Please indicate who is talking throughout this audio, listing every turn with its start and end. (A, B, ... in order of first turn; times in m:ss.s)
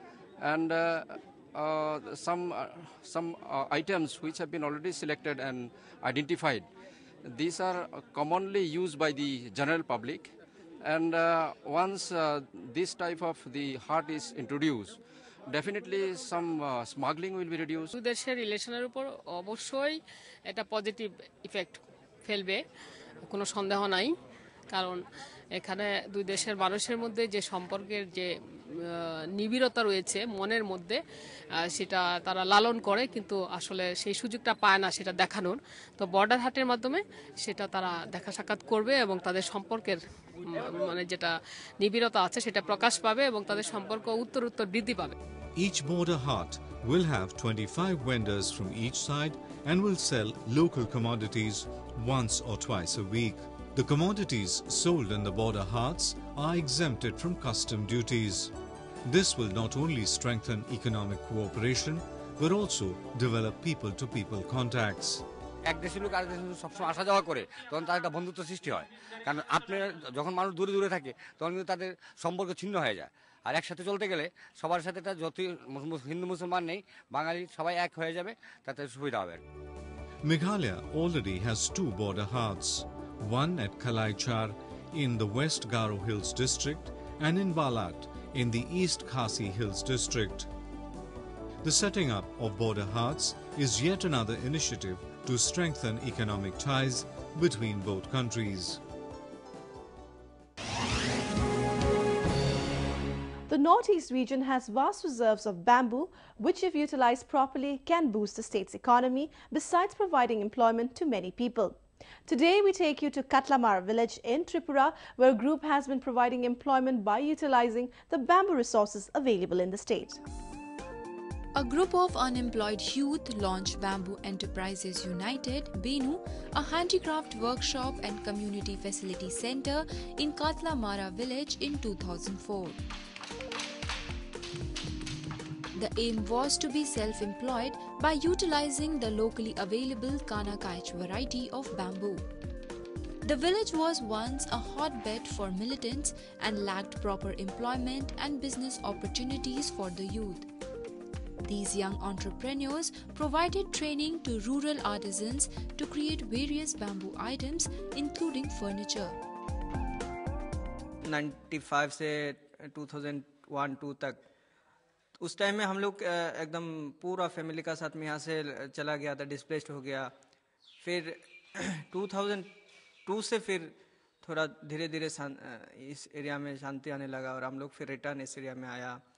0:00.4-0:06.6 A
0:07.3-0:10.3 A
0:10.8-0:15.0 A
0:15.5-0:17.9 A
0:17.9-0:22.6 B
0:23.3-0:24.1 B
0:24.7-0:25.0 B
0:25.5-0:28.3 B
0:29.0-0:31.0 B
0:31.6-0:45.2 B
0:45.6-0:58.5 C
0:59.0-1:05.2 C
1:05.7-1:19.4 D
1:20.2-1:30.5 C
1:31.6-1:38.8 C
1:43.5-2:00.2 E
2:01.6-2:12.8 F
2:15.7-2:22.3 F
2:23.2-2:30.5 F
2:31.4-2:39.2 F
2:41.0-2:44.2 G
2:45.2-2:50.1 G
2:50.8-2:51.2 G
2:51.8-2:52.5 G
2:53.1-2:59.0 G